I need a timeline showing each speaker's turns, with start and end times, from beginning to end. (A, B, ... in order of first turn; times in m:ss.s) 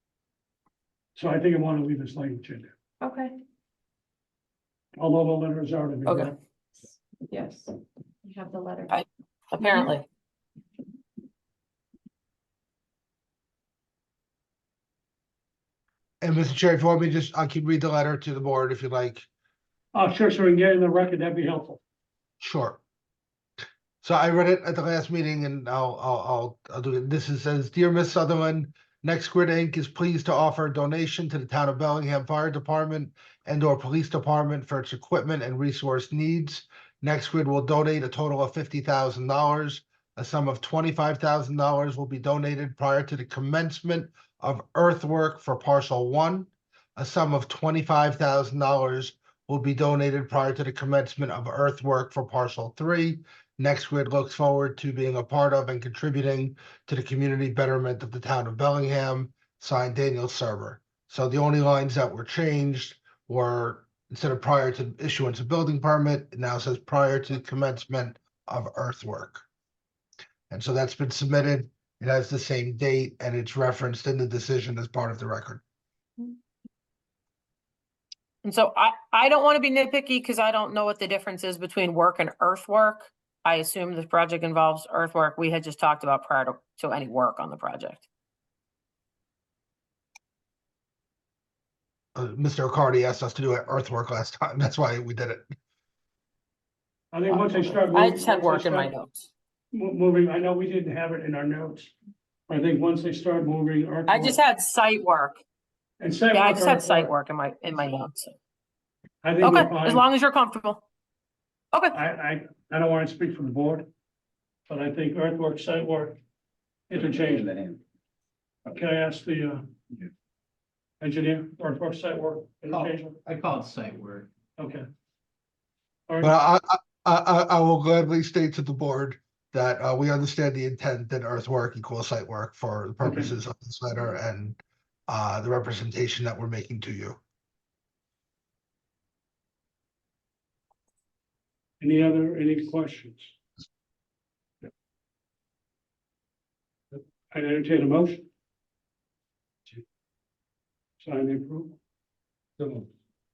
0:01.2-0:02.7 A
0:03.0-0:03.4 B
0:05.0-0:06.4 A
0:06.1-0:06.3 C
0:06.8-0:07.7 B
0:08.2-0:09.0 B
0:08.9-0:10.1 C
0:09.6-0:09.9 B
0:16.2-0:19.3 D
0:19.9-0:21.8 A
0:22.4-0:22.8 D
0:24.0-1:09.4 D
1:10.5-1:15.6 D
1:18.4-1:28.0 C
1:32.2-1:35.5 D
1:37.1-1:38.9 A
1:37.3-1:39.3 C
1:39.7-1:41.9 A
1:42.5-1:44.4 A
1:44.1-1:45.4 C
1:46.0-1:47.1 A
1:46.3-1:48.3 C
1:49.2-1:50.0 A
1:49.4-1:50.8 C
1:51.9-1:53.9 A
1:54.7-1:56.2 A
1:56.9-1:57.5 A
1:57.0-1:57.8 E
1:58.7-1:59.6 A
2:01.0-2:03.2 A
2:02.7-2:04.3 E
2:04.6-2:04.9 A
2:06.1-2:06.3 A
2:06.2-2:17.2 D
2:13.0-2:13.3 A
2:21.8-2:23.4 A
2:26.9-2:28.3 A
2:31.0-2:31.8 A